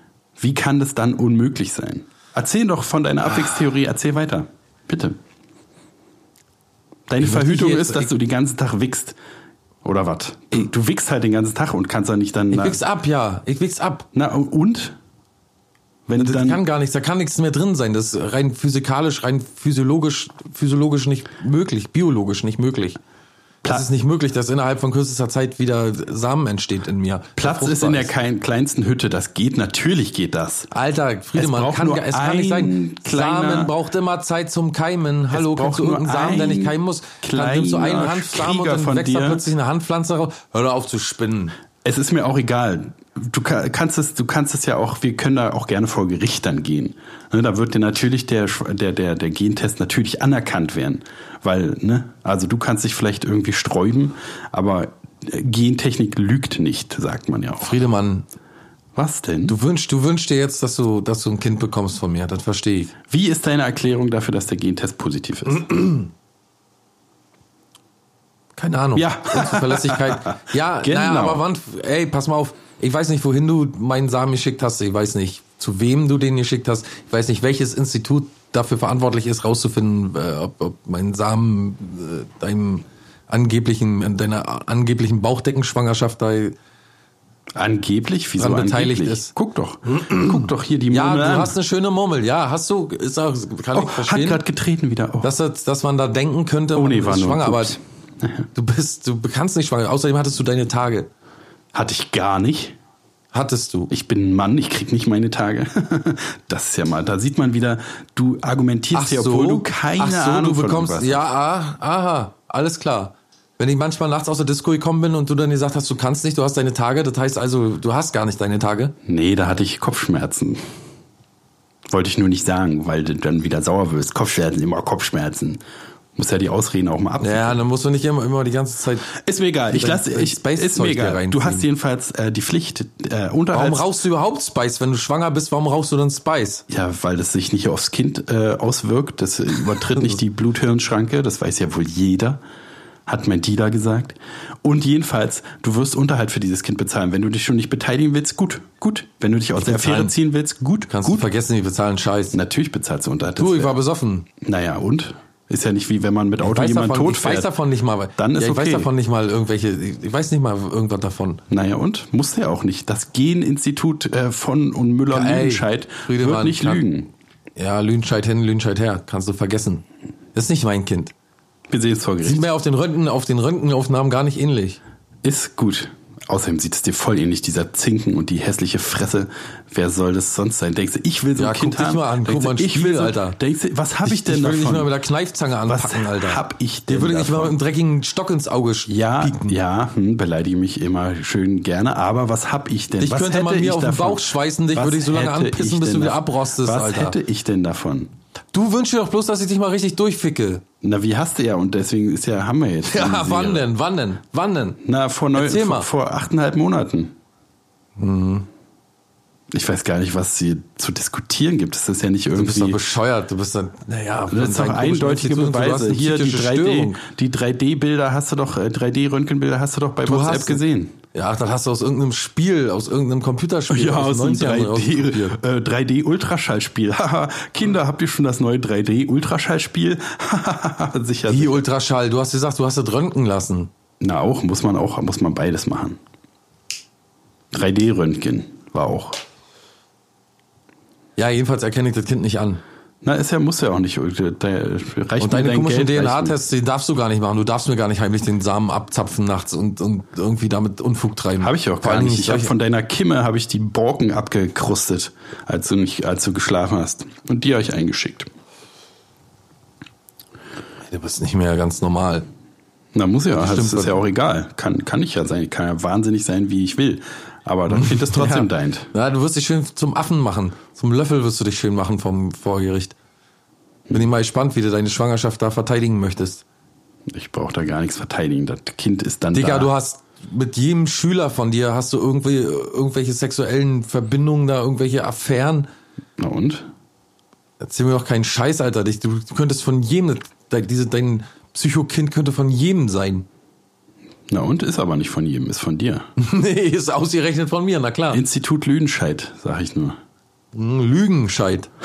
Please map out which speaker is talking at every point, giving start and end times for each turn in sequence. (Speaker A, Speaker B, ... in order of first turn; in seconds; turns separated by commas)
Speaker A: 0.4-5.2, Speaker A: 7.1-9.2, Speaker B: 7.2-8.1, Speaker A: 9.8-12.8, Speaker B: 12.5-14.1, Speaker A: 14.1-15.0, Speaker A: 16.1-16.6, Speaker B: 16.2-23.0, Speaker B: 23.6-28.1, Speaker A: 27.4-30.7, Speaker B: 30.7-41.5, Speaker A: 31.4-33.7, Speaker A: 35.3-39.4, Speaker A: 41.8-57.7, Speaker B: 57.6-58.2, Speaker A: 59.0-59.6, Speaker B: 59.5-63.0, Speaker A: 63.1-65.7, Speaker B: 65.5-66.1, Speaker B: 68.6-86.5, Speaker A: 69.0-71.4, Speaker A: 87.6-91.5, Speaker B: 88.4-89.3, Speaker B: 89.9-94.4, Speaker A: 93.7-95.3, Speaker B: 95.2-97.8, Speaker A: 96.8-98.5, Speaker B: 98.5-101.1, Speaker A: 101.7-102.8, Speaker B: 103.3-103.9, Speaker A: 103.9-111.2, Speaker B: 108.9-119.0, Speaker A: 119.1-120.6, Speaker A: 121.9-125.6, Speaker A: 126.2-127.6, Speaker B: 127.2-129.2, Speaker A: 129.2-133.8, Speaker B: 129.7-131.7, Speaker B: 133.5-136.6, Speaker A: 136.7-142.4, Speaker A: 143.1-151.2, Speaker B: 149.6-150.1, Speaker B: 150.9-152.4, Speaker A: 152.3-153.8, Speaker B: 153.4-154.3, Speaker A: 154.4-157.5, Speaker B: 156.4-161.4, Speaker A: 158.2-158.9, Speaker A: 161.5-167.1, Speaker B: 165.1-166.8, Speaker B: 167.6-169.8, Speaker B: 170.3-171.1, Speaker A: 171.7-172.4, Speaker B: 172.2-174.8, Speaker A: 175.2-184.9, Speaker B: 181.4-183.4, Speaker B: 184.1-189.6, Speaker A: 185.7-187.6, Speaker A: 188.9-198.1, Speaker B: 193.0-197.2, Speaker B: 198.5-200.6, Speaker A: 200.8-203.7, Speaker B: 202.9-204.8, Speaker A: 204.8-207.1, Speaker B: 205.3-205.9, Speaker B: 208.0-208.5, Speaker A: 209.5-212.8, Speaker B: 212.3-217.0, Speaker A: 214.3-220.9, Speaker B: 220.1-220.6, Speaker B: 221.1-225.4, Speaker A: 223.7-231.6, Speaker B: 231.3-233.7, Speaker A: 234.0-236.0, Speaker A: 237.5-239.2, Speaker B: 241.2-242.6, Speaker A: 243.0-246.4, Speaker B: 245.2-252.5, Speaker A: 251.4-258.3, Speaker B: 260.9-262.2, Speaker A: 262.9-268.9, Speaker B: 263.4-264.0, Speaker B: 267.7-272.9, Speaker B: 273.9-276.4, Speaker A: 277.1-279.7, Speaker B: 279.3-285.7, Speaker A: 286.2-286.7, Speaker B: 287.6-293.3, Speaker A: 294.3-296.1, Speaker B: 296.2-298.2, Speaker A: 298.1-300.0, Speaker B: 300.6-301.7